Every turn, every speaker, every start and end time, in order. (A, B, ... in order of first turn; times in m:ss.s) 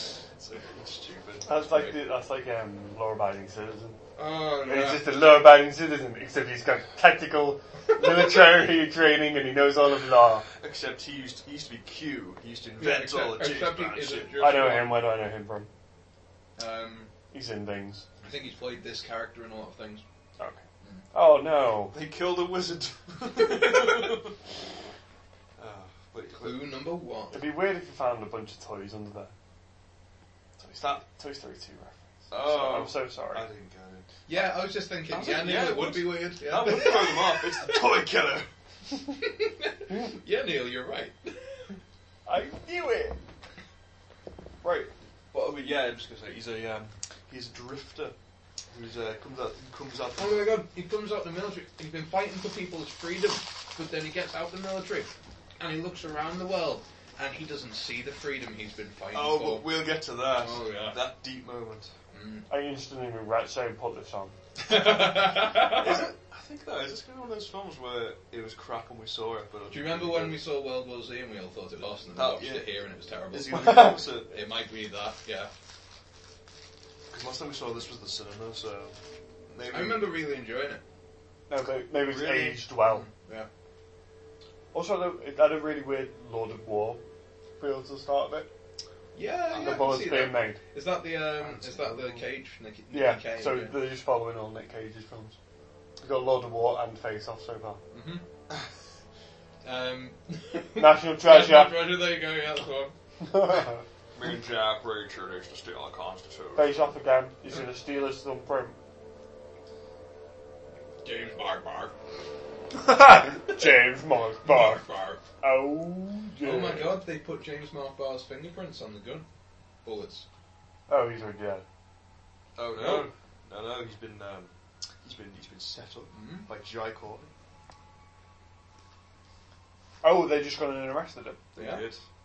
0:00.4-0:02.0 A
0:01.4-0:04.0 B
0:04.2-0:05.2 C
0:04.6-0:10.4 B
0:10.6-0:14.4 A
0:12.8-0:15.1 C
0:14.4-0:15.7 B
0:16.6-0:17.1 C
0:17.3-0:18.0 B
0:18.2-0:20.0 C
0:20.4-0:22.0 B
0:21.9-0:24.4 A
0:23.5-0:24.1 C
0:25.6-0:26.8 A
0:26.4-0:27.4 C
0:27.3-0:29.3 B
0:30.6-0:33.5 B
0:32.3-0:34.1 A
0:34.3-0:38.0 C
0:35.1-0:38.5 A
0:39.2-0:41.7 C
0:42.3-0:43.2 B
0:44.6-0:44.9 B
0:45.3-0:48.2 A
0:48.7-0:50.6 A
0:50.2-0:59.7 C
0:59.1-1:01.9 A
1:00.3-1:01.0 C
1:02.1-1:02.5 C
1:02.5-1:04.4 B
1:04.6-1:06.1 C
1:04.7-1:05.0 A
1:05.6-1:10.4 A
1:09.7-1:15.5 C
1:12.1-1:14.4 A
1:13.6-1:14.0 B
1:17.1-1:20.2 A
1:19.7-1:20.8 C
1:21.5-1:23.1 B
1:22.0-1:22.7 A
1:22.8-1:23.5 C
1:24.7-1:27.0 B
1:27.6-1:28.5 B
1:29.1-1:33.8 C
1:29.5-1:30.6 B
1:31.4-1:32.2 B
1:32.9-1:35.4 B
1:36.0-1:37.8 B
1:37.9-1:38.2 C
1:39.6-1:42.9 C
1:40.8-1:42.0 B
1:43.2-1:43.8 B
1:44.1-1:46.9 A
1:46.6-1:48.8 B
1:51.0-1:51.9 C
1:52.8-1:54.8 B
1:53.0-1:55.2 C
1:55.4-1:57.0 B
1:56.4-1:59.3 C
1:59.8-2:00.2 C
2:00.9-2:01.6 B
2:02.6-2:07.3 A
2:02.7-2:03.1 C
2:06.1-2:06.5 C
2:10.0-2:11.4 B
2:11.6-2:12.0 A
2:11.6-2:11.9 C